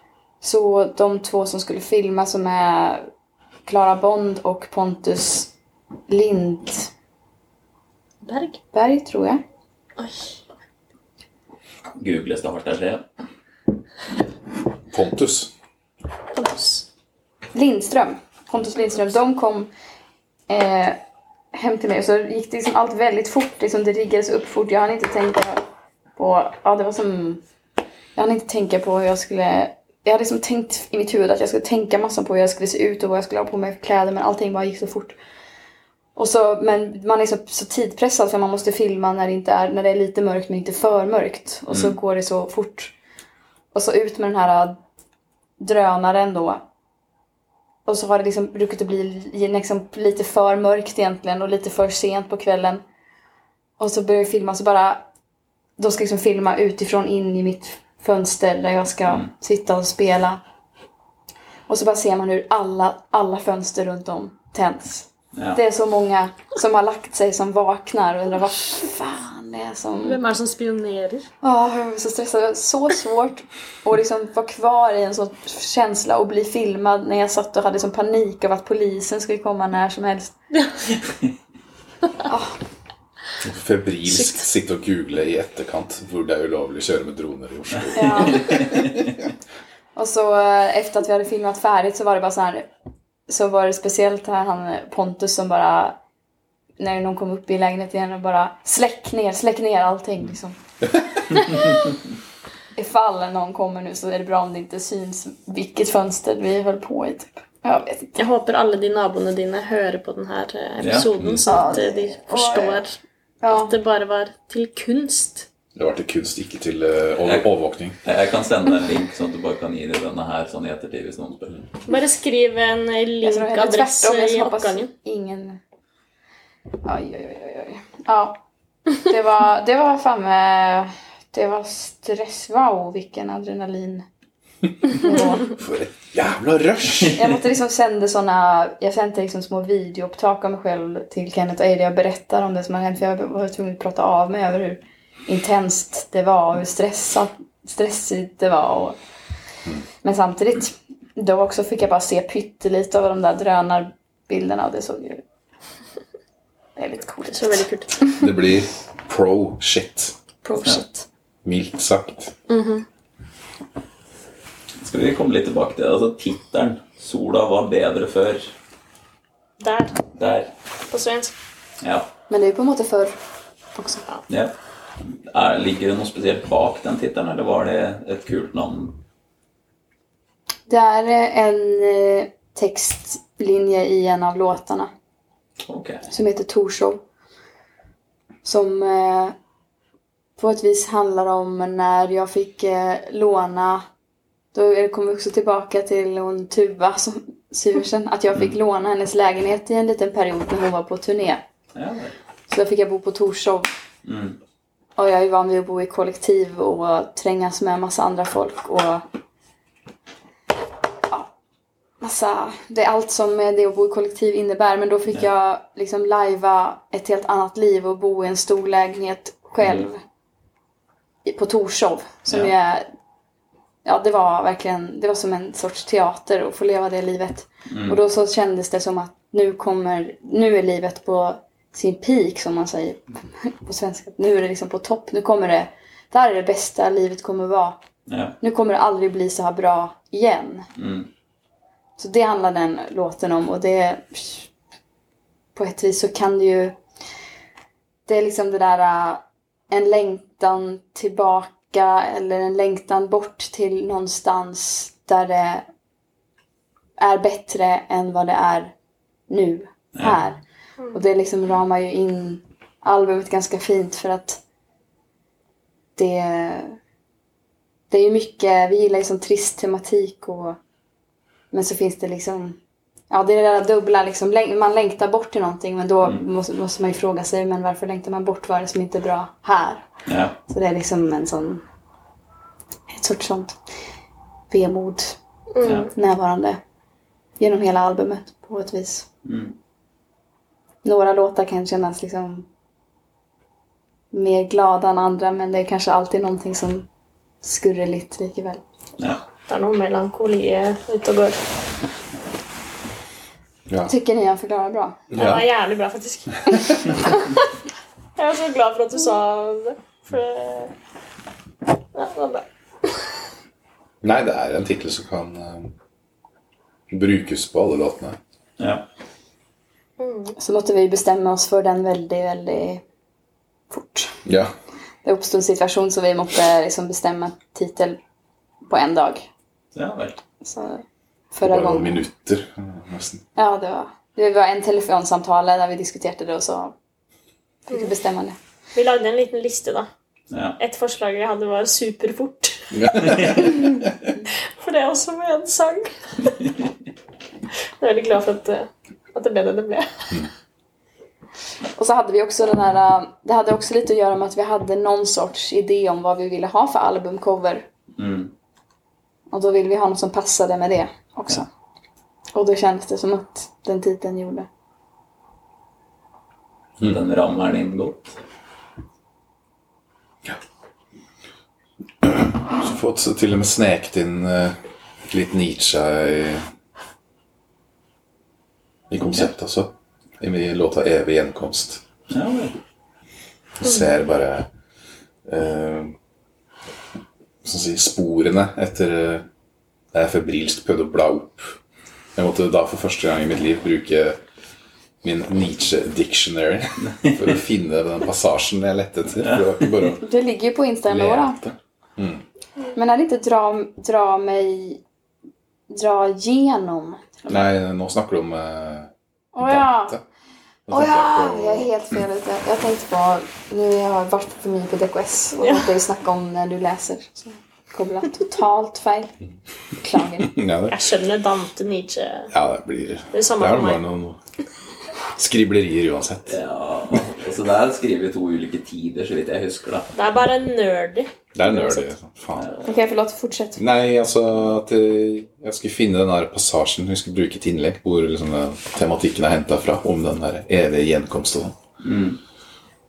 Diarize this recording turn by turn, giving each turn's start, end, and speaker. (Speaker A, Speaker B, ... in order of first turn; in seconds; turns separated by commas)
Speaker A: 0.4-3.0, Speaker A: 3.7-5.5, Speaker A: 6.1-6.9, Speaker B: 8.2-8.6, Speaker A: 8.7-9.4, Speaker B: 10.0-10.4, Speaker C: 12.0-13.1, Speaker D: 14.9-15.5, Speaker B: 16.3-16.9, Speaker A: 17.5-19.7, Speaker A: 20.5-21.0, Speaker A: 21.5-25.6, Speaker A: 26.2-27.4, Speaker A: 28.1-35.2, Speaker A: 36.2-42.9, Speaker C: 41.7-42.0, Speaker A: 43.7-44.8, Speaker A: 45.6-46.6, Speaker A: 47.9-52.8, Speaker A: 53.8-55.1, Speaker A: 55.8-60.4, Speaker A: 61.7-70.2, Speaker C: 65.3-65.6, Speaker B: 70.0-71.3, Speaker A: 71.4-80.3, Speaker A: 82.2-82.6, Speaker D: 83.4-88.8, Speaker B: 84.1-84.4, Speaker C: 87.8-89.1, Speaker A: 88.0-88.4, Speaker B: 88.0-88.4, Speaker A: 90.0-92.7, Speaker A: 93.3-96.0, Speaker A: 96.8-101.9, Speaker A: 102.8-108.3, Speaker B: 108.2-113.0, Speaker C: 110.8-111.1, Speaker A: 111.5-112.8, Speaker A: 113.4-113.8, Speaker B: 113.5-115.5, Speaker D: 115.8-118.0, Speaker C: 117.2-117.5, Speaker C: 118.0-121.6, Speaker B: 121.9-124.9, Speaker A: 123.2-125.6, Speaker A: 126.8-128.4, Speaker A: 128.9-134.1, Speaker A: 134.9-135.6, Speaker D: 135.5-137.4, Speaker A: 137.1-149.0, Speaker A: 150.0-155.2, Speaker A: 156.8-158.3, Speaker B: 157.3-157.9, Speaker D: 158.1-160.2, Speaker A: 160.4-161.1, Speaker D: 161.4-162.3, Speaker B: 162.5-162.8, Speaker C: 164.8-168.6, Speaker B: 169.6-170.0, Speaker C: 170.1-170.5, Speaker B: 170.9-171.3, Speaker C: 171.8-172.1, Speaker A: 172.3-173.2, Speaker A: 173.8-174.0, Speaker C: 174.3-179.0, Speaker A: 180.7-184.9, Speaker C: 185.7-186.1, Speaker A: 186.1-187.0, Speaker A: 188.4-189.3, Speaker A: 190.4-193.8, Speaker A: 194.5-201.4, Speaker C: 201.8-202.2, Speaker A: 202.5-203.7, Speaker C: 204.1-204.4, Speaker A: 205.0-209.1, Speaker A: 212.0-220.0, Speaker A: 221.2-222.9, Speaker A: 223.8-237.8, Speaker C: 227.7-228.0, Speaker C: 238.1-238.4, Speaker A: 238.4-240.7, Speaker C: 240.8-241.1, Speaker A: 242.0-244.5, Speaker A: 245.6-246.8, Speaker A: 248.1-255.7, Speaker A: 257.0-258.7, Speaker A: 259.3-264.4, Speaker A: 266.0-266.8, Speaker A: 267.9-270.6, Speaker A: 271.5-272.6, Speaker A: 273.1-279.9, Speaker C: 280.1-280.4, Speaker A: 280.5-281.6, Speaker A: 282.9-283.6, Speaker A: 284.5-286.6, Speaker B: 285.6-285.9, Speaker C: 285.6-285.9, Speaker A: 287.4-289.1, Speaker C: 289.2-289.6, Speaker A: 290.8-292.5, Speaker A: 294.1-296.9, Speaker A: 297.4-298.6, Speaker B: 299.5-301.4, Speaker A: 303.9-305.1, Speaker D: 305.1-305.5, Speaker B: 305.1-307.5, Speaker B: 308.2-310.7, Speaker B: 311.9-313.1, Speaker D: 314.0-315.7, Speaker D: 316.9-318.2, Speaker C: 318.6-318.9, Speaker B: 320.0-320.4, Speaker A: 320.4-322.8, Speaker A: 323.7-324.2, Speaker D: 324.2-324.5, Speaker A: 325.0-328.0, Speaker A: 328.6-329.3, Speaker C: 329.7-330.2, Speaker A: 330.4-332.0, Speaker D: 331.4-333.2, Speaker A: 333.4-336.7, Speaker A: 337.7-338.4, Speaker B: 338.8-339.9, Speaker C: 340.3-340.6, Speaker B: 340.6-346.4, Speaker D: 342.7-343.6, Speaker C: 343.0-343.6, Speaker B: 347.8-350.2, Speaker A: 351.8-357.7, Speaker C: 357.9-358.3, Speaker A: 359.3-361.5, Speaker A: 362.3-364.5, Speaker C: 366.8-368.2, Speaker D: 372.0-376.4, Speaker D: 378.9-381.8, Speaker C: 382.1-382.5, Speaker D: 383.6-384.5, Speaker D: 385.3-385.9, Speaker D: 387.4-389.3, Speaker D: 389.9-391.6, Speaker D: 392.1-394.2, Speaker D: 395.0-400.1, Speaker C: 396.8-397.4, Speaker C: 399.2-399.9, Speaker A: 399.9-401.4, Speaker D: 400.9-402.2, Speaker A: 402.8-404.8, Speaker A: 405.7-407.1, Speaker D: 407.3-410.0, Speaker A: 409.3-410.0, Speaker D: 410.7-411.7, Speaker A: 410.7-419.1, Speaker B: 415.4-415.7, Speaker A: 419.8-420.4, Speaker D: 420.2-420.8, Speaker B: 420.7-422.3, Speaker D: 422.3-424.2, Speaker B: 423.1-423.8, Speaker D: 425.2-426.4, Speaker C: 426.3-429.9, Speaker B: 429.9-431.9, Speaker D: 431.4-432.5, Speaker C: 432.4-432.7, Speaker A: 432.6-433.6, Speaker D: 433.6-441.6, Speaker C: 441.8-442.2